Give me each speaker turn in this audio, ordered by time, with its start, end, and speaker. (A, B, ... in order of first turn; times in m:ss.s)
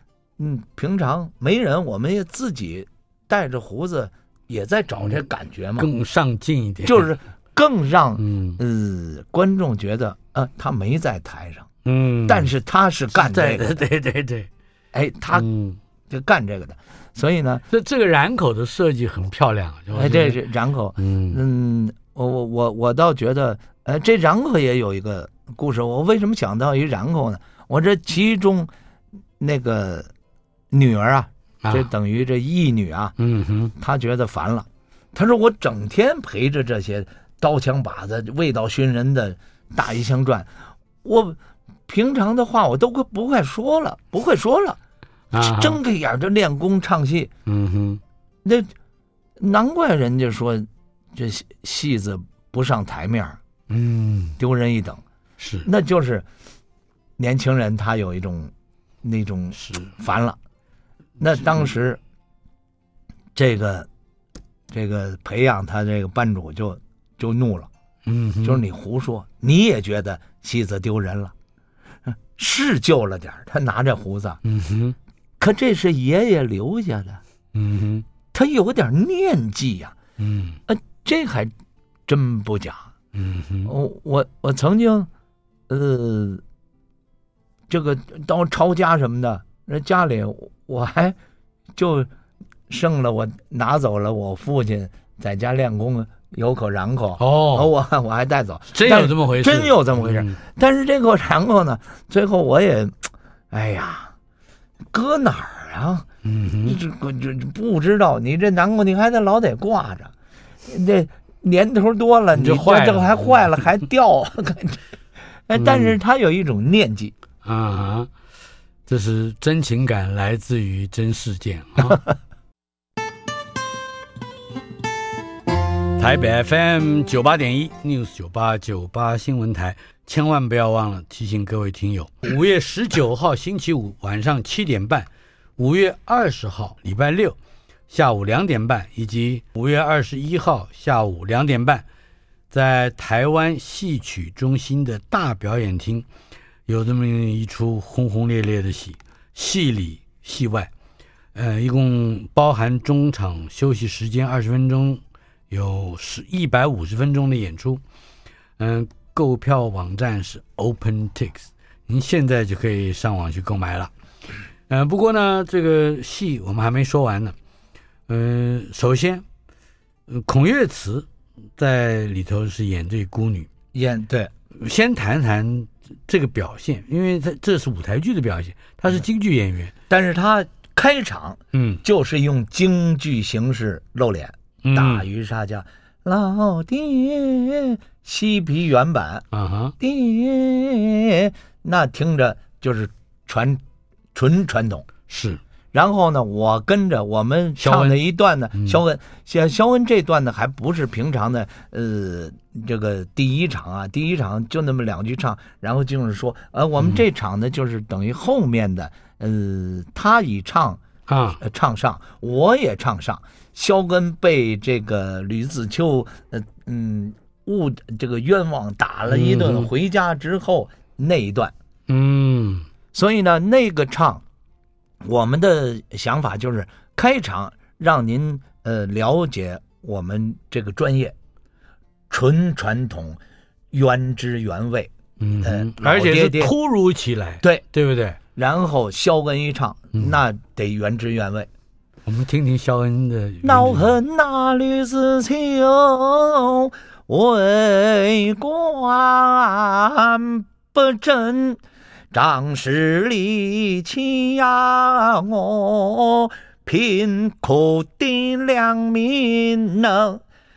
0:00.4-0:05.9 A
0:05.8-0:07.1 B
0:06.8-0:11.7 A
0:08.2-0:08.6 B
0:11.8-0:12.5 B
0:12.3-0:13.7 A
0:13.1-0:14.5 B
0:14.9-0:15.5 A
0:15.3-0:15.8 B
0:16.1-0:17.6 A
0:17.7-0:20.4 B
0:19.9-0:28.7 A
0:21.0-0:21.4 B
0:29.4-0:30.1 A
0:30.7-0:33.1 A
0:33.2-0:33.7 B
0:33.8-0:40.5 A
0:41.0-0:44.8 A
0:45.3-0:45.8 B
0:45.4-0:47.3 A
0:47.4-0:48.0 B
0:48.4-0:48.7 A
0:49.4-0:53.4 A
0:53.7-0:54.4 B
0:54.4-0:55.0 A
0:55.4-0:55.7 B
0:55.6-0:56.2 A
0:57.2-0:58.5 A
0:59.0-1:00.4 A
0:59.6-0:59.9 B
1:01.2-1:02.0 A
1:03.3-1:03.9 A
1:04.7-1:07.7 A
1:08.0-1:08.6 B
1:08.4-1:11.3 A
1:12.1-1:14.4 A
1:14.4-1:15.0 B
1:15.4-1:17.2 A
1:17.5-1:18.0 B
1:18.3-1:20.0 A
1:20.2-1:20.6 B
1:20.7-1:21.5 A
1:22.1-1:22.9 A
1:23.1-1:23.7 B
1:23.6-1:25.1 A
1:25.7-1:26.4 A
1:27.7-1:31.2 A
1:31.8-1:32.1 A
1:32.7-1:44.1 A
1:37.2-1:37.7 B
1:38.7-1:40.4 B
1:44.9-1:46.1 A
1:46.2-1:46.8 B
1:46.6-1:50.1 A
1:50.6-1:54.8 A
1:52.3-1:53.4 B
1:55.5-1:57.1 A
1:55.6-1:56.0 B
1:57.4-1:58.1 B
1:58.9-2:02.0 B
2:06.0-2:17.4 B
2:17.9-2:21.8 B
2:22.5-2:26.1 B
2:26.7-2:30.7 B
2:31.3-2:37.8 B
2:38.6-2:43.9 B
2:44.7-2:47.3 B
2:48.1-2:49.2 B
2:50.1-2:53.5 B
2:53.7-2:54.3 A
2:54.6-2:59.7 B
2:59.9-3:09.2 A
3:01.5-3:01.8 B
3:04.6-3:05.0 B
3:09.3-3:09.7 B
3:09.8-3:13.6 A
3:14.1-3:14.9 A
3:15.1-3:15.4 B
3:15.7-3:30.8 A
3:17.6-3:18.0 B
3:31.1-3:31.4 B
3:31.4-3:41.5 A
3:39.1-3:39.7 B
3:41.9-3:42.6 B
3:42.9-3:44.2 A
3:45.0-3:51.1 A
3:52.1-3:53.2 A
3:53.7-3:56.5 A
3:55.2-3:58.2 B
3:58.3-4:01.5 A
4:02.0-4:04.0 B
4:03.4-4:11.6 A
4:12.1-4:20.2 A